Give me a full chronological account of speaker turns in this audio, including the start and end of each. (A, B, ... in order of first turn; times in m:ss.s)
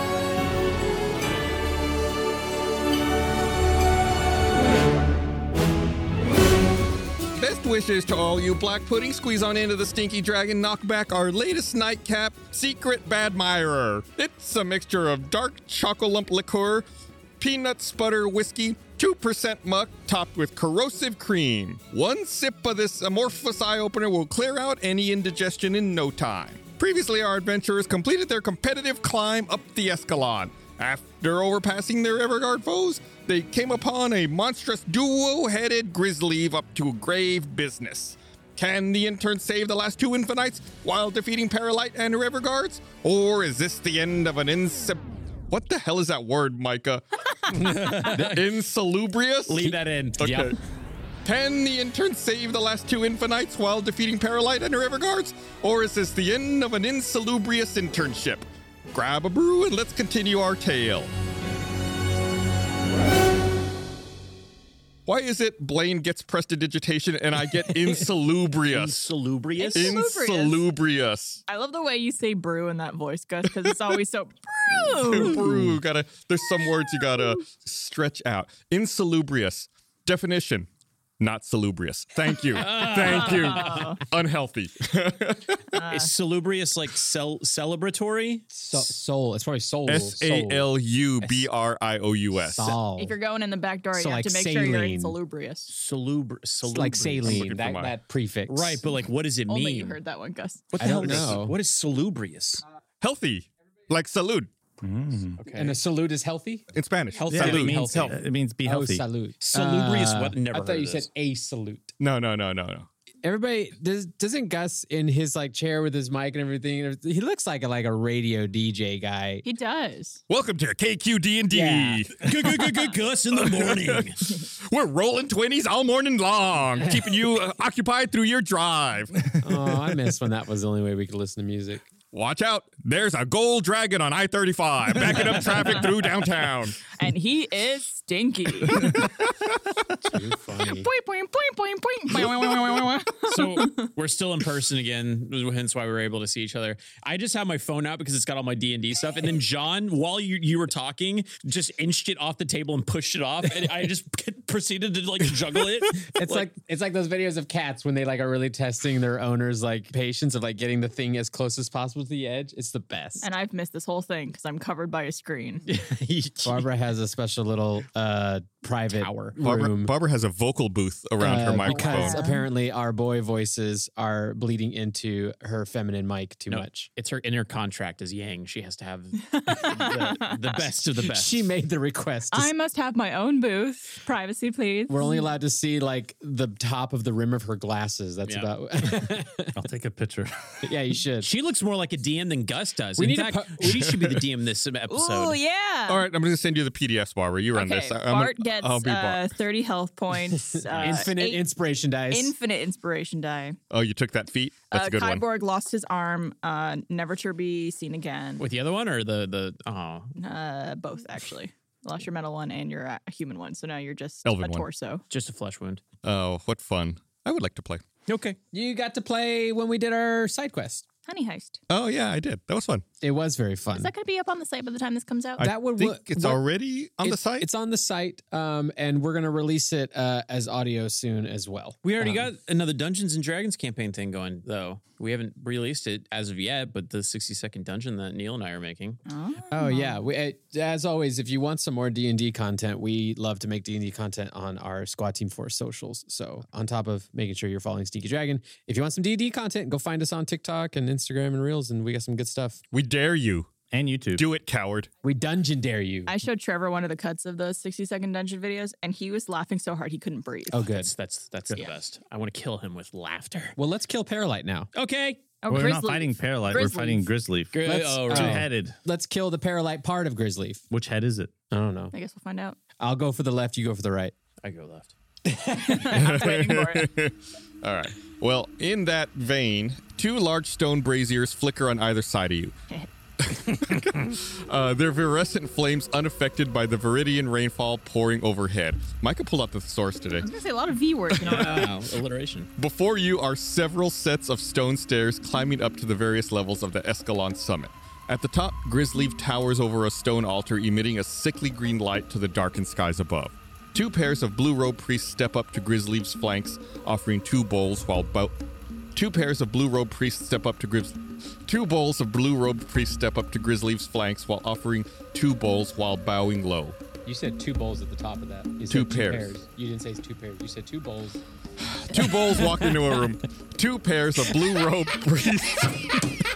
0:07.4-0:16.9 A
0:17.4-0:50.6 A
0:47.5-0:48.5 B
0:47.7-0:48.4 C
0:49.5-0:50.6 B
0:51.2-1:01.1 A
1:05.1-1:09.1 A
1:08.7-1:10.0 B
1:09.6-1:10.7 D
1:09.7-1:11.4 A
1:11.5-1:15.6 D
1:14.7-1:20.7 A
1:21.2-1:25.8 A
1:22.5-1:23.8 B
1:22.9-1:24.0 D
1:25.7-1:26.1 D
1:25.9-1:28.8 B
1:28.5-1:31.5 C
1:29.9-1:32.8 A
1:32.4-1:33.2 C
1:33.0-1:35.7 D
1:33.9-1:35.2 C
1:35.7-1:37.5 B
1:36.6-1:38.9 C
1:36.8-1:38.0 A
1:38.5-1:40.0 B
1:39.5-1:40.7 D
1:40.7-1:42.6 B
1:40.8-1:41.6 C
1:43.0-1:44.5 A
1:44.8-1:45.4 E
1:45.4-1:45.8 B
1:45.6-1:46.7 C
1:46.7-1:48.0 A
1:47.2-1:48.2 B
1:47.2-1:51.9 C
1:47.3-1:49.0 E
1:49.4-1:51.1 B
1:52.0-1:52.9 A
1:53.2-1:59.4 C
1:59.4-2:00.2 D
2:00.3-2:09.4 A
2:01.5-2:02.1 C
2:02.2-2:04.2 B
2:09.4-2:11.9 C
2:12.1-2:16.8 A
2:16.9-2:19.0 D
2:18.8-2:19.1 A
2:20.0-2:20.9 C
2:20.6-2:23.9 D
2:22.4-2:23.0 A
2:23.2-2:36.5 B
2:36.1-2:43.3 C
2:43.2-2:45.6 D
2:45.7-2:46.7 B
2:46.4-2:50.0 C
2:48.9-2:49.3 B
2:49.4-2:52.2 A
2:51.2-2:56.9 C
2:51.6-2:52.5 D
2:56.5-3:01.5 B
2:59.3-3:00.4 D
3:00.6-3:02.5 C
3:02.3-3:05.3 D
3:04.9-3:09.6 C
3:08.2-3:08.5 B
3:09.6-3:10.8 E
3:10.6-3:11.3 C
3:11.2-3:15.4 B
3:13.0-3:14.2 C
3:14.9-3:16.1 D
3:15.9-3:19.3 A
3:17.5-3:21.5 D
3:20.4-3:22.3 C
3:20.8-3:21.1 B
3:22.1-3:23.6 D
3:23.7-3:25.2 A
3:24.7-3:28.4 D
3:28.4-3:30.2 B
3:30.2-3:35.0 D
3:34.2-3:34.7 A
3:35.1-3:35.8 B
3:36.0-3:37.8 A
3:38.1-3:38.4 B
3:38.5-3:40.8 C
3:41.1-3:41.6 D
3:41.7-3:42.8 A
3:43.0-3:43.9 C
3:43.8-3:45.4 D
3:45.4-3:47.5 A
3:45.4-3:46.4 C
3:47.0-3:52.3 C
3:51.8-3:59.0 B
3:59.1-4:00.0 D
3:59.5-4:12.6 C
4:12.7-4:13.6 A
4:13.7-4:14.2 E
4:14.2-4:14.9 A
4:15.0-4:16.1 C
4:16.1-4:20.7 D
4:20.5-4:20.9 C
4:20.6-4:23.6 B
4:23.6-4:24.7 C
4:24.7-4:25.2 B
4:25.4-4:27.1 D
4:25.5-4:28.8 E
4:27.5-4:28.4 B
4:27.6-4:30.6 C
4:30.7-4:31.3 E
4:31.5-4:31.9 C
4:31.9-4:32.6 D
4:32.8-4:34.1 C
4:34.4-4:34.9 B
4:35.3-4:36.0 C
4:35.7-4:36.9 D
4:35.9-4:42.5 A
4:43.2-4:50.3 A
4:50.2-4:51.7 D
4:51.2-4:51.6 A
4:51.2-4:52.5 B
4:52.6-5:08.3 A
5:09.0-5:16.8 A
5:17.0-5:21.2 C
5:18.7-5:19.3 A
5:21.6-5:25.9 A
5:21.9-5:22.6 C